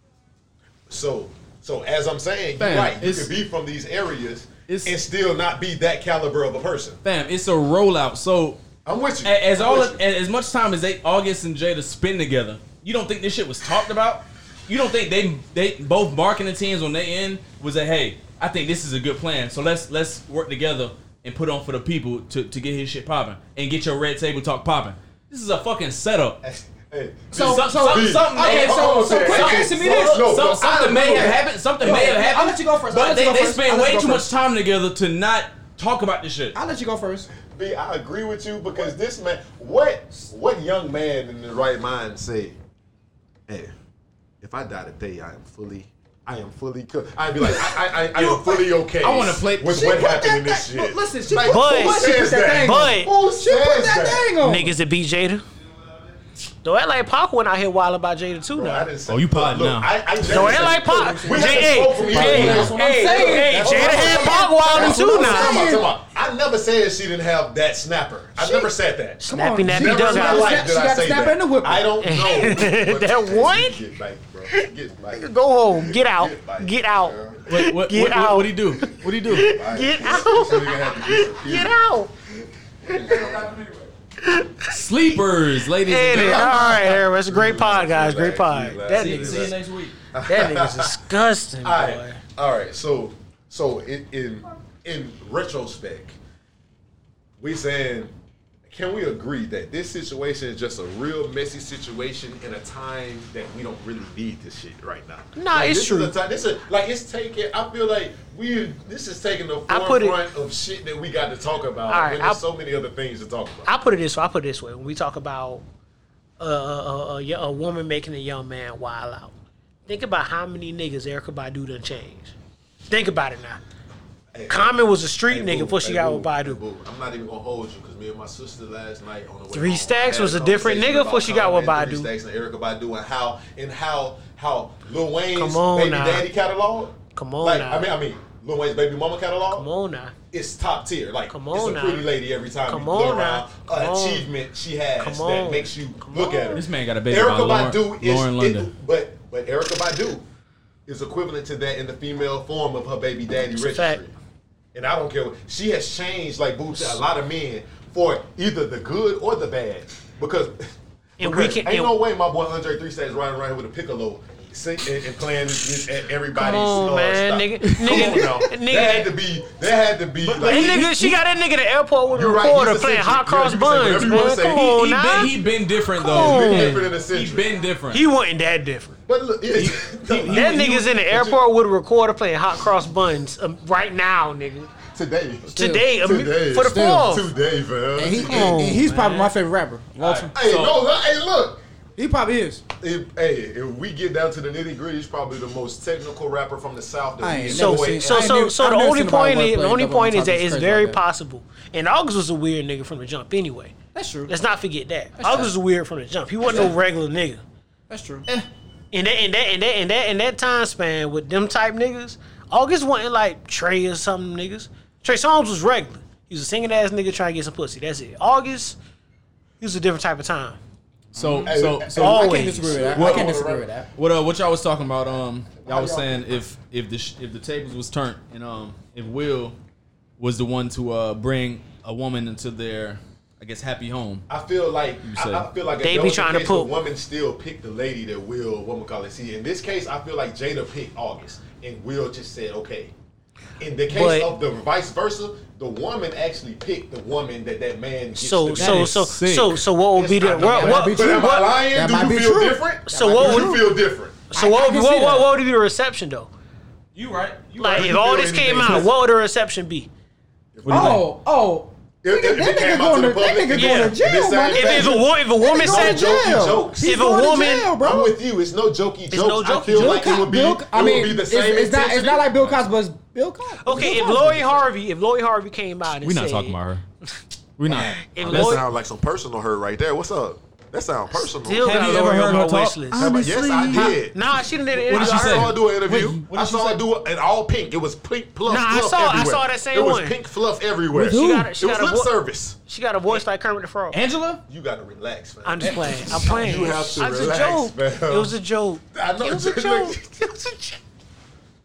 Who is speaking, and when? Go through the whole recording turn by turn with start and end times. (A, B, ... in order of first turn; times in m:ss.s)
0:00.9-0:07.0 A
0:02.6-0:03.3 B
0:04.7-0:05.0 B
0:07.0-0:08.6 B
0:08.8-0:10.0 A
0:09.2-0:26.4 B
0:26.4-0:32.1 A
0:27.3-0:34.3 C
0:27.3-0:36.6 B
0:36.5-0:37.3 C
0:37.5-0:42.6 A
0:43.5-0:43.7 A
0:44.4-0:54.3 A
0:47.4-0:49.9 B
0:49.6-0:54.7 C
0:51.4-0:53.1 D
0:54.4-0:55.4 D
0:56.6-0:58.9 D
0:58.5-1:17.4 A
0:59.1-0:59.9 B
1:00.3-1:05.6 D
1:00.4-1:05.9 C
1:08.4-1:08.7 C
1:09.2-1:10.6 D
1:09.2-1:12.0 C
1:12.0-1:13.8 D
1:14.5-1:22.1 D
1:17.5-1:19.6 B
1:19.2-1:21.8 A
1:22.8-1:23.5 A
1:23.0-1:23.9 C
1:24.2-1:24.7 D
1:24.7-1:26.8 B
1:25.8-1:29.6 D
1:26.1-1:29.6 A
1:28.9-1:30.0 B
1:30.1-1:31.0 A
1:30.2-1:32.2 D
1:31.6-1:36.2 A
1:37.4-1:38.1 A
1:38.7-1:53.7 A
1:45.4-1:46.1 D
1:49.7-1:50.2 D
1:51.9-1:52.4 D
1:53.7-1:55.6 D
1:56.4-1:59.3 D
1:59.9-2:02.3 D
2:02.9-2:03.6 D
2:04.3-2:19.7 A
2:04.5-2:06.6 D
2:09.5-2:12.1 D
2:15.4-2:16.2 D
2:17.2-2:17.9 D
2:19.6-2:20.2 D
2:20.3-2:30.2 A
2:21.3-2:22.1 D
2:22.7-2:24.3 D
2:25.0-2:26.6 D
2:26.5-2:28.7 B
2:30.9-2:34.1 A
2:33.5-2:34.0 D
2:34.7-2:50.9 A
2:41.2-2:41.9 D
2:46.3-2:49.1 D
2:47.9-2:48.4 C
2:50.2-2:51.2 B
2:50.4-2:55.4 D
2:52.1-2:54.7 A
2:54.4-2:58.0 B
2:56.0-2:56.9 D
2:56.0-2:57.5 A
2:57.9-2:59.0 D
2:59.1-3:01.4 A
2:59.5-3:00.9 B
3:00.3-3:04.7 D
3:04.9-3:08.6 A
3:05.5-3:07.3 D
3:05.6-3:05.8 C
3:06.6-3:07.2 C
3:08.0-3:10.3 C
3:08.1-3:08.9 D
3:08.9-3:09.3 B
3:10.0-3:10.8 B
3:10.3-3:11.6 A
3:12.0-3:12.6 C
3:12.8-3:18.4 A
3:17.2-3:21.0 C
3:17.5-3:23.8 D
3:23.9-3:24.3 C
3:24.3-3:27.4 D
3:25.2-3:25.5 C
3:27.9-3:28.3 C
3:28.9-3:38.8 D
3:39.6-3:40.6 D
3:41.1-3:42.3 B
3:41.2-3:43.9 C
3:41.4-3:43.7 A
3:42.0-3:42.9 D
3:42.9-3:43.4 B
3:44.0-3:49.6 B
3:45.6-3:46.3 C
3:50.2-3:54.3 B
3:54.3-4:02.9 A
3:55.0-3:55.5 B
3:55.8-3:56.7 D
4:03.6-4:09.0 A
4:03.9-4:04.3 D
4:08.2-4:11.5 D
4:08.6-4:09.6 B
4:09.9-4:14.2 A
4:10.5-4:13.7 C
4:12.9-4:13.6 D
4:14.3-4:16.3 D
4:14.3-4:15.3 C
4:17.0-4:18.2 B
4:17.6-4:19.9 D
4:17.6-4:18.9 A
4:20.6-4:21.0 A
4:20.6-4:21.1 B
4:20.7-4:28.2 C
4:22.0-4:27.0 A
4:23.5-4:26.2 D
4:26.8-4:27.7 D
4:27.8-4:32.3 A
4:29.1-4:30.2 D
4:29.6-4:34.4 C
4:33.6-4:36.6 D
4:33.7-4:34.7 A
4:36.0-4:36.8 B
4:37.6-4:38.6 B
4:37.7-4:42.0 A
4:38.1-4:38.6 D
4:41.1-4:43.1 D
4:41.6-4:44.0 B
4:42.9-4:44.0 C
4:43.0-4:52.6 A
4:43.7-4:45.6 D
4:44.9-4:46.8 B
4:45.9-4:46.2 C
4:48.5-4:50.2 D
4:50.9-4:51.4 C
4:51.1-4:54.0 D
4:53.9-4:54.4 B
4:54.5-4:58.4 A
4:55.4-5:00.8 D
4:58.9-5:00.2 A